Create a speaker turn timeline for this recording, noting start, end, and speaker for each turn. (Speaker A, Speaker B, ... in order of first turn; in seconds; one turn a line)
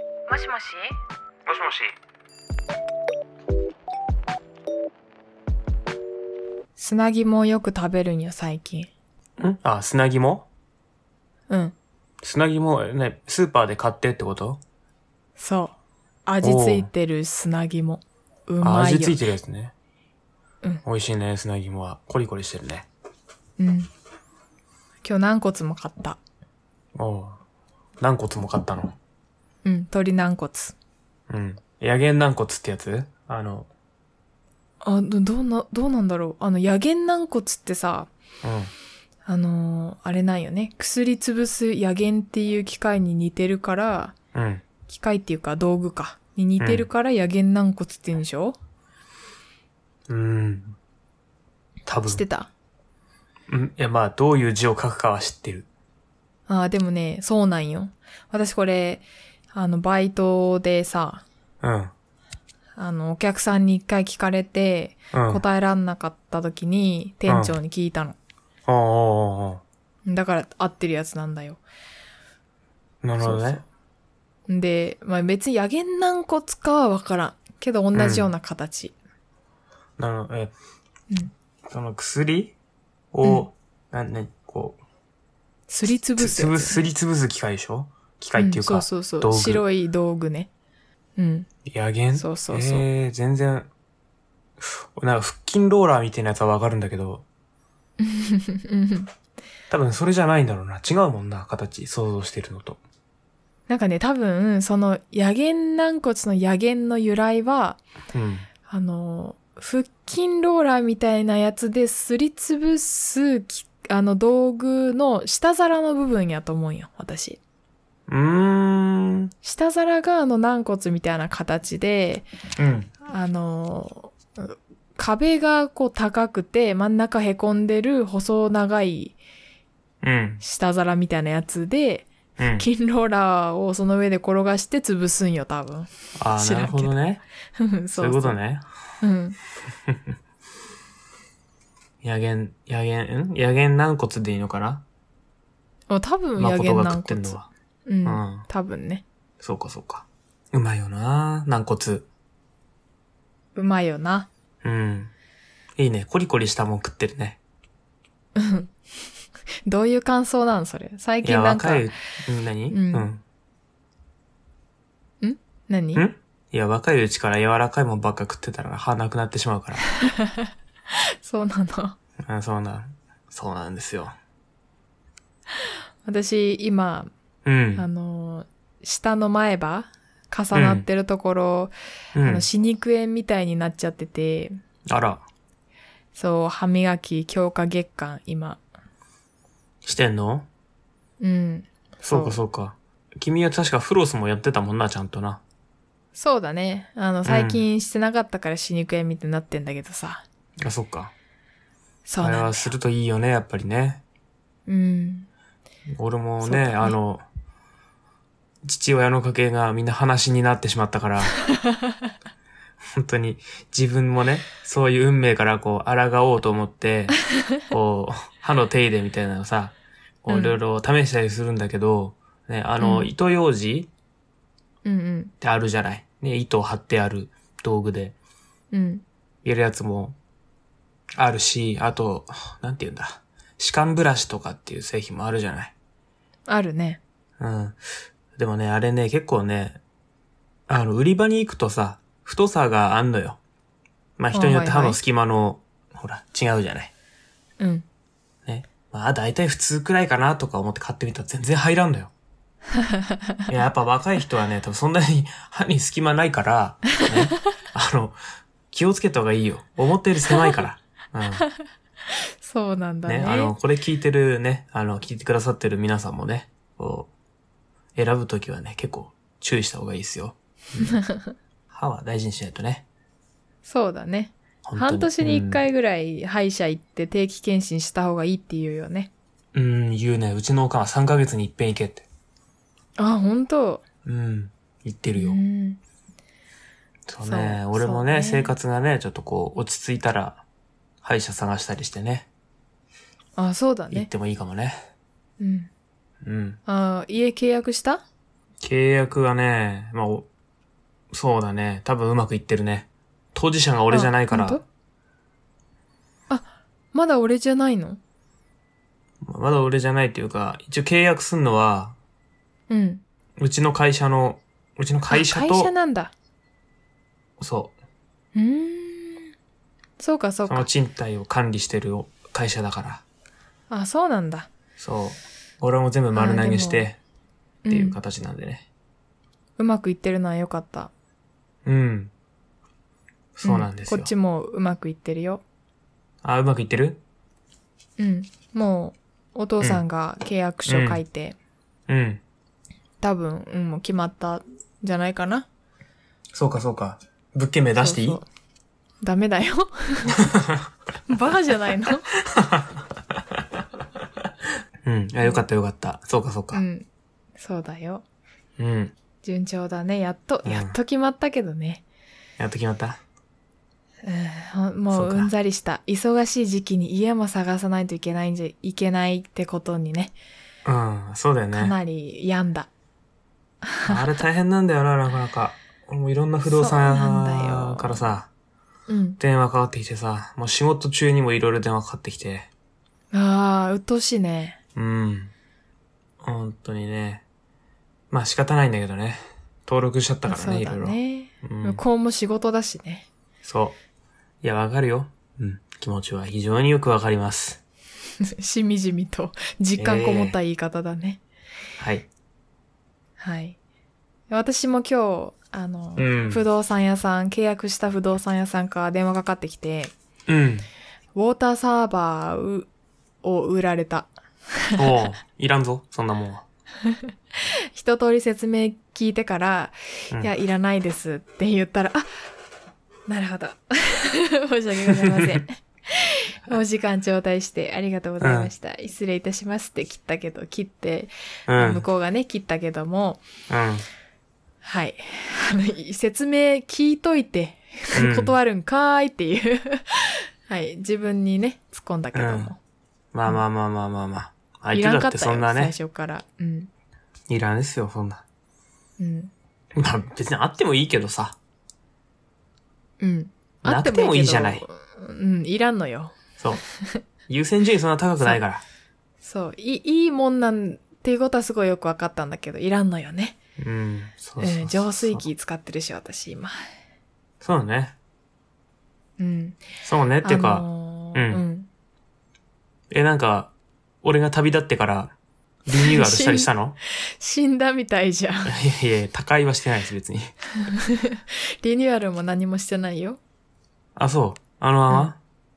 Speaker A: 0.3-0.9
Speaker B: 1.5-1.9
Speaker A: 6.8-8.9
Speaker B: 9.4-10.5
Speaker A: 11.5-11.8
Speaker B: 12.2-14.6
Speaker A: 15.4-19.2
Speaker B: 16.4-16.9
Speaker B: 18.6-19.7
Speaker B: 20.9-22.9
Speaker A: 23.6-23.9
Speaker A: 25.0-26.2
Speaker B: 26.9-27.4
Speaker B: 28.0-29.0
Speaker A: 29.6-30.8
Speaker B: 31.3-33.7
Speaker A: 34.8-38.1
Speaker B: 38.4-38.7
Speaker A: 39.2-44.1
Speaker B: 44.3-44.6
Speaker A: 44.9-48.6
Speaker B: 46.6-46.9
Speaker B: 50.1-50.8
Speaker B: 51.9-52.2
Speaker A: 52.1-52.5
Speaker B: 53.5-55.6
Speaker A: 56.5-61.2
Speaker B: 61.6-61.9
Speaker A: 62.8-68.2
Speaker B: 65.1-65.4
Speaker B: 67.3-67.5
Speaker B: 68.7-69.6
Speaker A: 70.0-71.6
Speaker B: 73.0-73.6
Speaker A: 73.2-73.6
Speaker A: 74.5-79.0
Speaker B: 77.9-78.3
Speaker B: 80.0-80.5
Speaker B: 81.7-82.5
Speaker B: 83.1-84.8
Speaker A: 83.2-83.5
Speaker A: 85.7-86.8
Speaker B: 86.2-89.6
Speaker A: 88.4-90.5
Speaker A: 91.2-91.5
Speaker B: 91.6-93.7
Speaker A: 92.1-92.8
Speaker B: 94.6-97.2
Speaker A: 98.0-99.1
Speaker B: 99.7-102.8
Speaker A: 103.7-107.8
Speaker B: 108.1-108.5
Speaker A: 108.6-117.4
Speaker B: 118.1-119.3
Speaker A: 119.4-122.3
Speaker B: 122.6-122.9
Speaker A: 123.0-129.2
Speaker B: 130.0-130.4
Speaker A: 130.4-136.9
Speaker B: 132.4-132.7
Speaker B: 136.2-137.2
Speaker A: 137.6-138.4
Speaker B: 138.0-138.7
Speaker A: 139.0-139.4
Speaker B: 142.0-144.8
Speaker A: 145.9-149.1
Speaker B: 146.4-147.5
Speaker B: 148.1-148.4
Speaker B: 149.4-152.1
Speaker A: 153.6-154.3
Speaker B: 154.6-155.1
Speaker B: 155.8-157.4
Speaker A: 158.4-158.7
Speaker A: 159.7-161.9
Speaker B: 161.2-163.2
Speaker A: 162.7-163.1
Speaker A: 165.2-166.0
Speaker B: 165.9-169.8
Speaker A: 170.0-170.5
Speaker A: 171.2-172.0
Speaker B: 172.2-174.1
Speaker A: 176.1-177.1
Speaker B: 177.5-177.9
Speaker A: 177.8-184.6
Speaker B: 180.5-180.8
Speaker B: 182.2-182.5
Speaker B: 184.9-185.2
Speaker A: 186.2-188.6
Speaker B: 189.8-190.5
Speaker A: 191.2-192.4
Speaker B: 192.0-195.4
Speaker A: 196.2-200.2
Speaker B: 197.2-197.6
Speaker B: 200.6-201.1
Speaker A: 202.1-202.7
Speaker B: 202.2-204.0
Speaker A: 204.7-205.3
Speaker B: 205.9-207.2
Speaker A: 206.4-207.0
Speaker B: 208.6-211.4
Speaker A: 211.5-211.9
Speaker B: 212.9-223.9
Speaker A: 220.3-220.6
Speaker A: 222.8-223.1
Speaker A: 224.8-225.3
Speaker B: 225.4-228.2
Speaker A: 228.7-229.0
Speaker B: 229.4-230.2
Speaker B: 231.2-235.7
Speaker A: 236.5-237.0
Speaker B: 237.4-237.8
Speaker B: 238.4-239.8
Speaker B: 240.7-243.4
Speaker B: 244.2-246.9
Speaker A: 244.3-245.0
Speaker A: 247.6-247.9
Speaker B: 248.5-252.1
Speaker A: 252.8-253.3
Speaker B: 253.5-258.2
Speaker B: 258.7-261.4
Speaker A: 260.3-260.6
Speaker A: 262.4-263.5
Speaker B: 263.1-267.1
Speaker B: 267.9-270.9
Speaker A: 270.8-271.3
Speaker B: 271.7-272.9
Speaker A: 273.6-279.1
Speaker B: 274.6-275.6
Speaker B: 279.5-282.1
Speaker A: 283.0-283.9
Speaker B: 284.1-285.4
Speaker A: 285.2-285.8
Speaker B: 287.1-290.4
Speaker A: 287.2-288.5
Speaker B: 291.0-292.3
Speaker A: 293.4-294.1
Speaker B: 293.9-294.8
Speaker A: 295.4-295.7
Speaker B: 296.2-296.6
Speaker A: 296.7-298.0
Speaker B: 298.6-300.3
Speaker B: 301.1-304.6
Speaker A: 303.9-304.6
Speaker A: 306.3-308.0
Speaker B: 309.2-311.9
Speaker A: 312.7-313.0
Speaker B: 313.4-315.7
Speaker A: 315.1-316.1
Speaker B: 317.4-317.7
Speaker A: 318.4-319.3
Speaker A: 320.0-320.7
Speaker B: 320.5-323.0
Speaker A: 323.7-324.5
Speaker B: 324.8-327.0
Speaker A: 326.1-326.9
Speaker A: 327.6-328.0
Speaker B: 327.7-328.7
Speaker A: 329.6-330.9
Speaker B: 331.6-332.1
Speaker B: 333.4-334.1
Speaker A: 333.4-335.4
Speaker B: 336.2-337.0
Speaker A: 338.0-341.4
Speaker B: 340.7-341.0
Speaker B: 341.9-342.2
Speaker A: 343.0-345.5
Speaker B: 346.3-348.2
Speaker A: 347.8-348.2
Speaker A: 349.0-350.3
Speaker B: 350.3-350.6
Speaker A: 351.1-352.1
Speaker B: 352.2-353.4
Speaker B: 354.8-356.6
Speaker A: 356.5-356.9
Speaker A: 357.4-358.0
Speaker B: 358.6-358.9
Speaker A: 359.2-361.8
Speaker B: 360.4-360.8
Speaker B: 362.4-363.0
Speaker A: 364.0-370.1
Speaker B: 364.9-365.3
Speaker B: 370.6-371.8
Speaker A: 371.5-372.7
Speaker A: 373.6-374.0
Speaker B: 373.9-378.3
Speaker A: 376.5-378.0
Speaker A: 378.9-379.2
Speaker B: 379.2-382.5
Speaker A: 383.1-384.6
Speaker B: 384.8-385.3
Speaker B: 386.2-387.2
Speaker B: 388.1-391.8
Speaker A: 390.3-393.1
Speaker B: 393.4-393.8
Speaker B: 394.4-397.6
Speaker A: 398.2-401.2
Speaker B: 399.8-400.4
Speaker B: 401.8-402.1
Speaker A: 403.2-403.6
Speaker A: 404.3-409.9
Speaker B: 406.0-406.4
Speaker B: 410.3-410.7
Speaker A: 411.1-412.7
Speaker A: 413.2-414.1
Speaker B: 414.8-416.4
Speaker A: 417.7-422.1
Speaker A: 423.1-433.2
Speaker B: 425.0-425.3
Speaker B: 428.2-428.5
Speaker B: 431.5-431.8
Speaker B: 433.5-433.9
Speaker A: 434.6-442.6
Speaker B: 437.9-438.3
Speaker B: 442.1-442.5
Speaker B: 443.1-445.7
Speaker A: 444.7-446.7
Speaker B: 447.3-448.2
Speaker A: 449.0-449.3
Speaker B: 449.8-451.4
Speaker A: 453.0-456.2
Speaker B: 453.6-454.6
Speaker B: 457.3-458.6
Speaker A: 459.2-463.4
Speaker B: 463.6-465.2
Speaker A: 464.4-466.6
Speaker B: 467.4-467.9
Speaker A: 469.2-469.6
Speaker B: 469.8-471.4
Speaker A: 470.2-471.7
Speaker B: 472.9-473.5
Speaker B: 474.0-475.1
Speaker B: 475.7-476.8
Speaker A: 475.7-476.5
Speaker A: 477.2-478.5
Speaker B: 478.4-480.3
Speaker A: 480.6-483.2
Speaker B: 483.9-485.2